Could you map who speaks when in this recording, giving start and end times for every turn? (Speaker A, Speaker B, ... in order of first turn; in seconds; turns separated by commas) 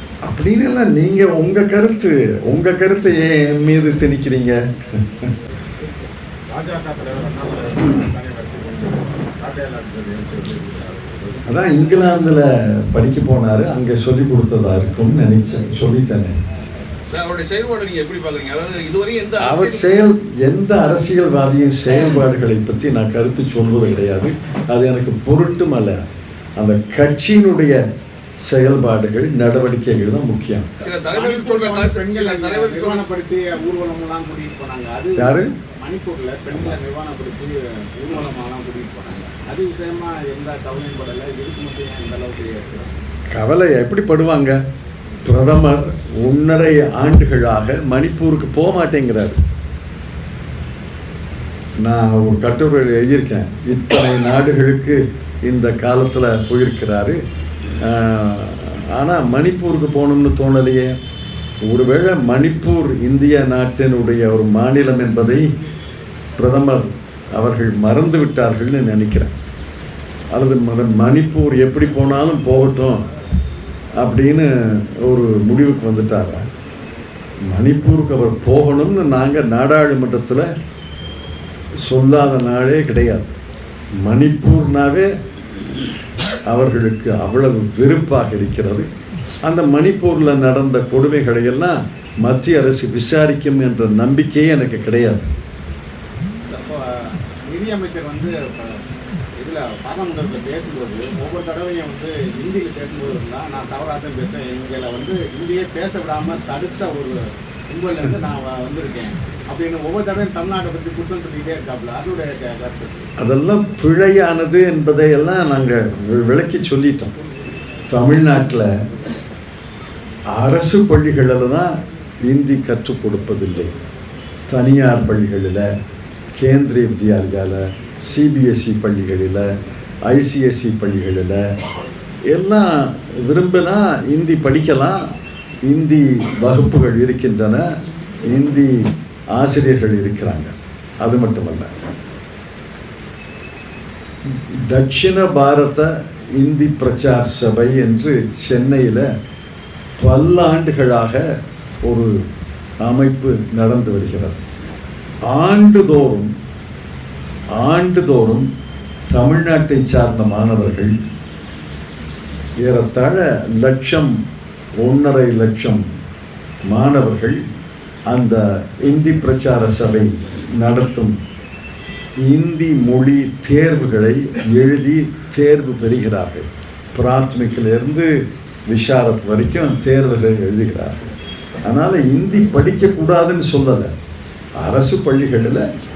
Speaker A: 0.2-5.2, Speaker B: 6.5-11.5, Speaker A: 11.5-16.3, Speaker C: 17.1-20.0, Speaker A: 19.4-26.0, Speaker A: 26.6-27.8, Speaker A: 28.5-30.7, Speaker C: 30.8-33.0, Speaker B: 31.0-43.0, Speaker A: 35.2-35.5, Speaker A: 43.3-44.6, Speaker A: 45.3-49.4, Speaker A: 51.8-57.2, Speaker A: 57.8-61.0, Speaker A: 61.7-65.5, Speaker A: 66.4-69.3, Speaker A: 70.3-73.0, Speaker A: 74.0-76.5, Speaker A: 77.5-80.5, Speaker A: 81.9-83.3, Speaker A: 84.0-85.1, Speaker A: 86.5-88.9, Speaker A: 89.4-95.3, Speaker B: 96.5-96.8, Speaker B: 97.4-98.8, Speaker B: 99.4-107.1, Speaker B: 107.7-113.1, Speaker A: 113.2-117.1, Speaker A: 117.9-118.7, Speaker A: 120.3-121.7, Speaker A: 122.3-123.7, Speaker A: 124.5-125.7, Speaker A: 126.4-129.5, Speaker A: 130.1-131.4, Speaker A: 132.3-135.0, Speaker A: 135.7-137.7, Speaker A: 138.2-138.8, Speaker A: 139.3-141.7, Speaker A: 144.3-149.1, Speaker A: 150.0-151.2, Speaker A: 151.8-152.1, Speaker A: 152.8-154.4, Speaker A: 155.3-156.3, Speaker A: 157.6-158.5, Speaker A: 159.1-160.9, Speaker A: 162.6-164.1, Speaker A: 164.8-165.8, Speaker A: 166.7-167.4, Speaker A: 168.1-171.1, Speaker A: 172.2-178.1, Speaker A: 178.7-181.0, Speaker A: 181.7-183.9, Speaker A: 184.6-185.7